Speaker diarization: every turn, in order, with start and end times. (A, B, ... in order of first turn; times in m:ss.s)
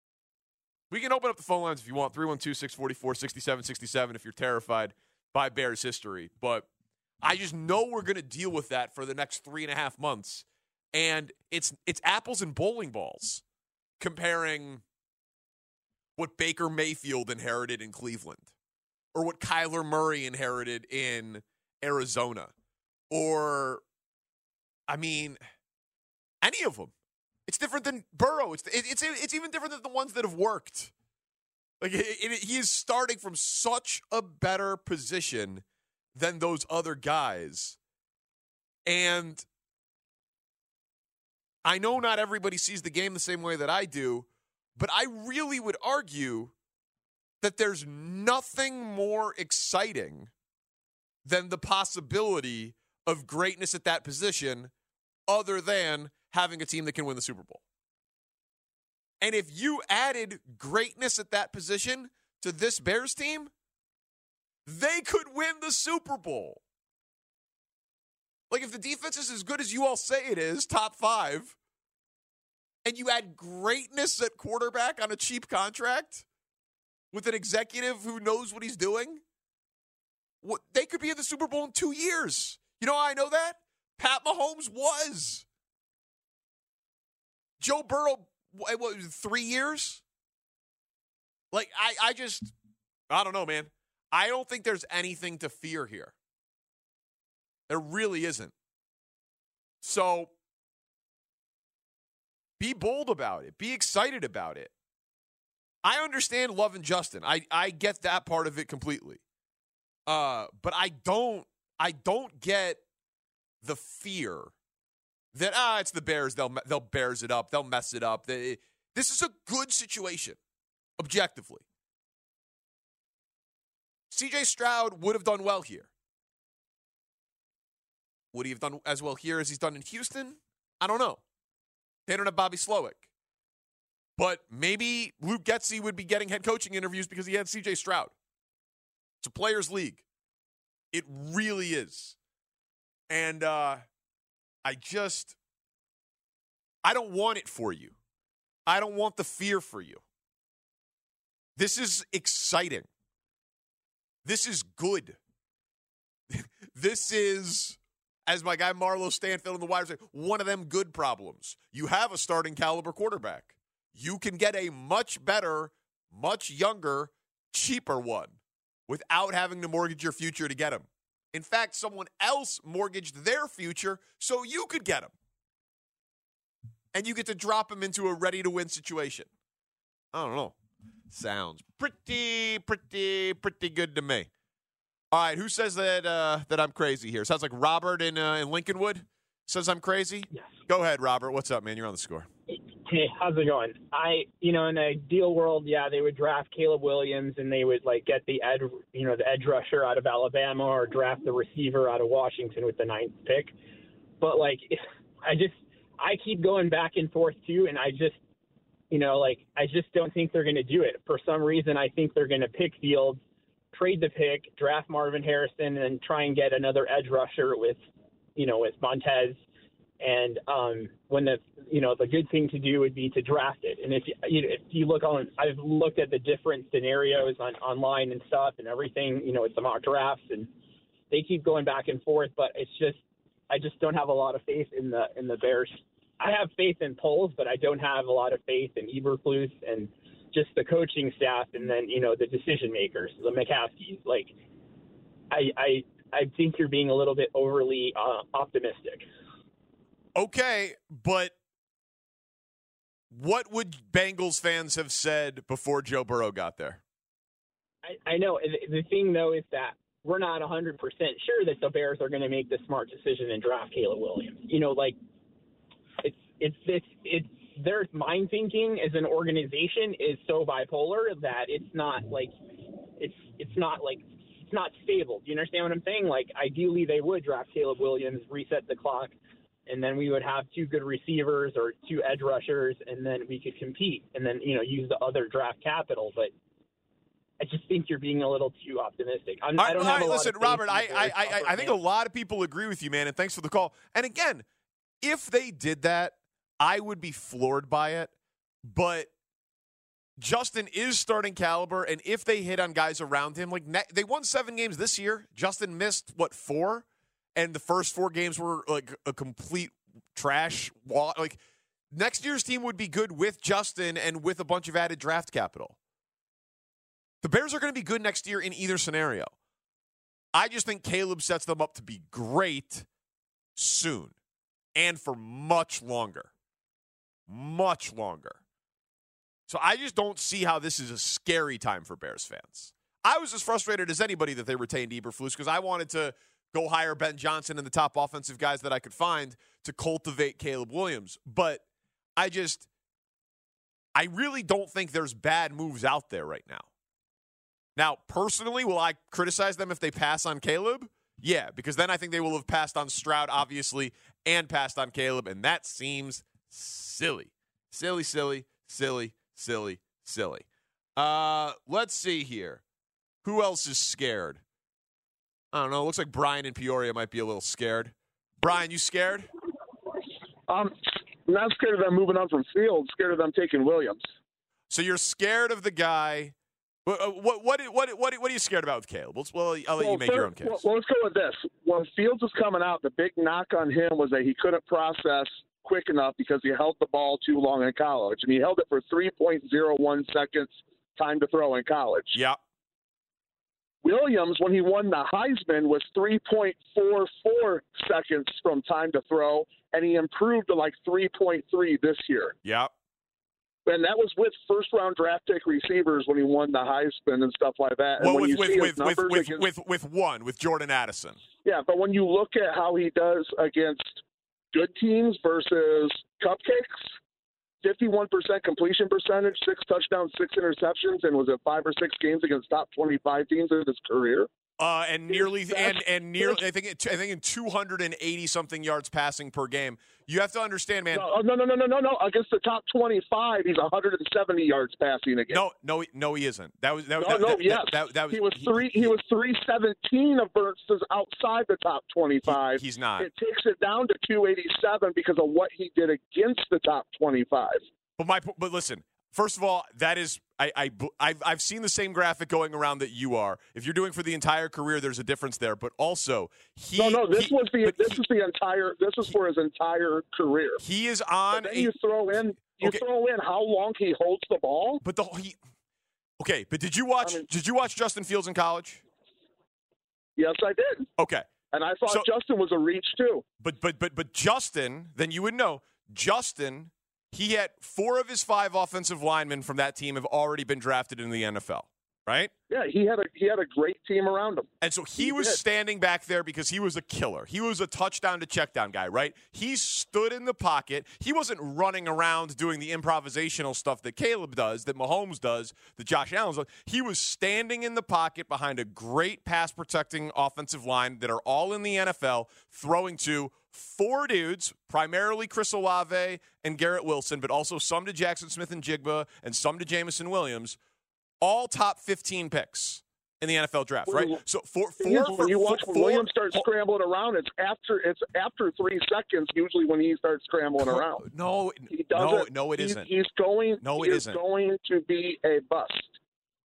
0:00.9-0:06.7 A
0:07.2-0:13.4 A
0:14.0-0:14.8 A
0:16.2-0:18.5 A
0:19.1-0:22.5 A
0:23.1-0:23.8 A
0:24.9-0:25.4 A
0:26.4-0:26.9 A
0:27.5-0:30.9 A
0:31.8-0:35.6 A
0:36.1-0:37.8 A
0:38.8-0:39.4 A
0:41.6-0:46.5 A
0:47.4-0:50.3 A
0:51.2-0:54.7 A
0:55.3-0:57.6 A
0:59.2-1:03.5 A
1:04.6-1:06.6 A
1:08.5-1:11.6 A
1:12.8-1:16.2 A
1:17.1-1:19.2 A
1:20.4-1:25.4 A
1:27.6-1:30.0 A
1:31.5-1:32.5 A
1:33.1-1:36.1 A
1:37.7-1:38.5 A
1:39.8-1:40.3 A
1:42.6-1:44.7 A
1:45.8-1:49.2 A
1:50.1-1:52.8 A
1:53.6-1:54.5 A
1:55.3-2:00.4 A
2:01.0-2:01.6 A
2:04.1-2:05.9 A
2:08.3-2:11.2 A
2:12.1-2:13.1 A
2:14.2-2:18.1 A
2:19.2-2:20.0 A
2:20.9-2:22.2 A
2:23.1-2:23.8 A
2:24.6-2:25.4 A
2:26.8-2:27.9 A
2:28.6-2:30.0 A
2:31.6-2:32.9 A
2:34.2-2:35.2 A
2:36.3-2:55.1 A
2:56.9-2:59.3 A
3:00.1-3:00.5 A
3:01.1-3:04.3 A
3:05.1-3:12.3 A
3:12.5-3:23.5 B
3:24.2-3:28.2 B
3:28.9-3:33.2 B
3:33.7-3:37.8 B
3:38.4-3:39.4 B
3:40.0-3:50.5 B
3:51.1-4:04.3 B
4:05.3-4:09.0 B
4:10.1-4:11.3 A
4:13.1-4:16.8 A
4:17.8-4:25.0 B
4:26.0-4:32.3 B
4:33.0-4:39.1 B
4:39.7-4:46.3 B
4:47.4-4:51.8 B
4:49.6-4:54.4 A
4:55.0-4:58.1 A
4:58.6-4:59.1 A
5:00.2-5:11.4 A
5:11.9-5:15.8 A
5:17.2-5:19.3 A
5:20.3-5:22.9 A
5:23.6-5:24.1 A
5:24.7-5:26.3 A
5:27.3-5:28.4 A
5:29.5-5:41.6 A
5:42.2-5:42.7 A
5:43.9-5:46.7 A
5:47.8-6:02.6 A
6:03.2-6:04.4 A
6:05.5-6:09.3 A
6:10.5-6:14.1 C
6:14.7-6:16.3 A
6:16.8-6:20.6 A
6:19.8-6:32.2 C
6:32.1-6:32.4 A
6:33.8-6:42.3 C
6:42.4-6:42.7 A
6:43.6-6:49.4 C
6:48.0-6:51.2 A
6:51.4-6:54.0 C
6:54.5-6:56.9 C
6:57.6-7:04.3 C
7:04.6-7:11.1 A
7:05.1-7:06.4 C
7:10.9-7:15.4 C
7:15.3-7:18.9 A
7:17.0-7:27.6 C
7:22.2-7:23.1 A
7:28.0-7:38.0 A
7:36.8-7:40.6 C
7:40.6-7:41.7 A
7:41.3-7:44.8 C
7:44.8-7:45.4 A
7:46.2-7:48.8 A
7:50.2-7:50.9 C
7:51.0-7:51.3 A
7:51.5-7:53.2 C
7:53.4-8:02.3 A
8:02.5-8:04.5 C
8:04.6-8:30.6 A
8:05.0-8:05.4 C
8:31.2-8:36.5 A
8:33.9-8:34.2 C
8:34.8-8:41.0 C
8:40.6-8:42.9 A
8:41.7-8:46.0 C
8:43.6-8:44.2 A